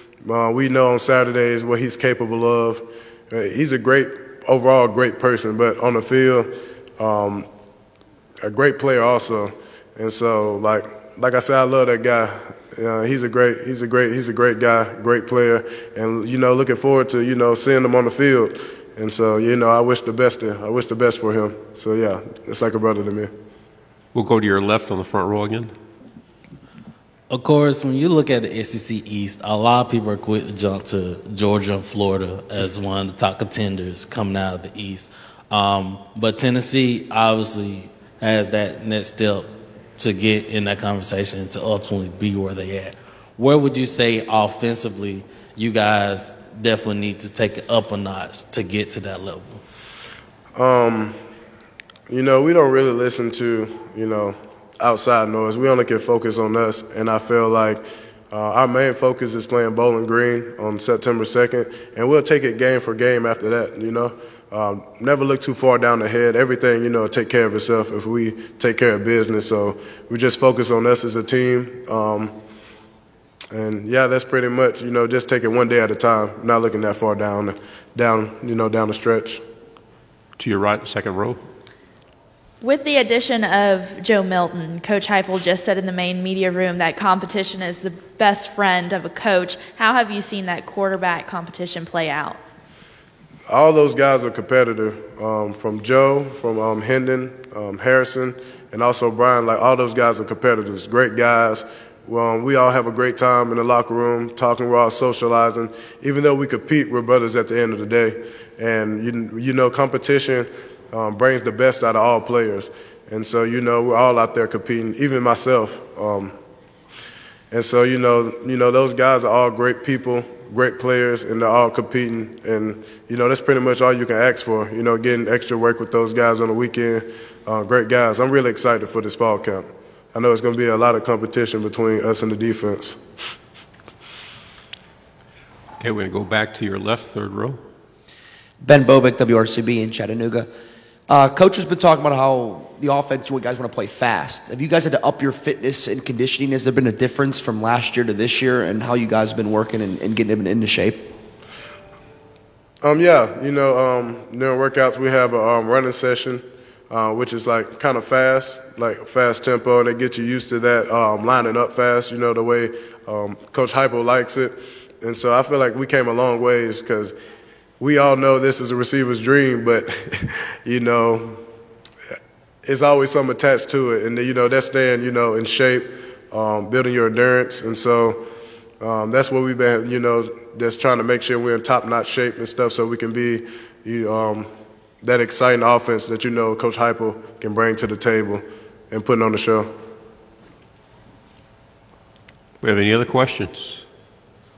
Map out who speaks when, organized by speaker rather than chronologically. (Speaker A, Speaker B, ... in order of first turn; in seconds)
Speaker A: 0.2-7.5, 8.4-23.3, 50.5-51.2, 52.1-72.3, 73.5-79.4, 93.5-116.3, 117.5-133.0, 152.8-167.2, 167.8-171.4, 172.6-178.2, 178.8-184.5, 185.0-189.7
Speaker B: 24.1-25.7, 80.4-81.4, 135.8-137.6, 192.6-193.8
Speaker C: 27.3-49.6
Speaker D: 82.6-92.4
Speaker E: 138.6-140.5, 141.1-151.1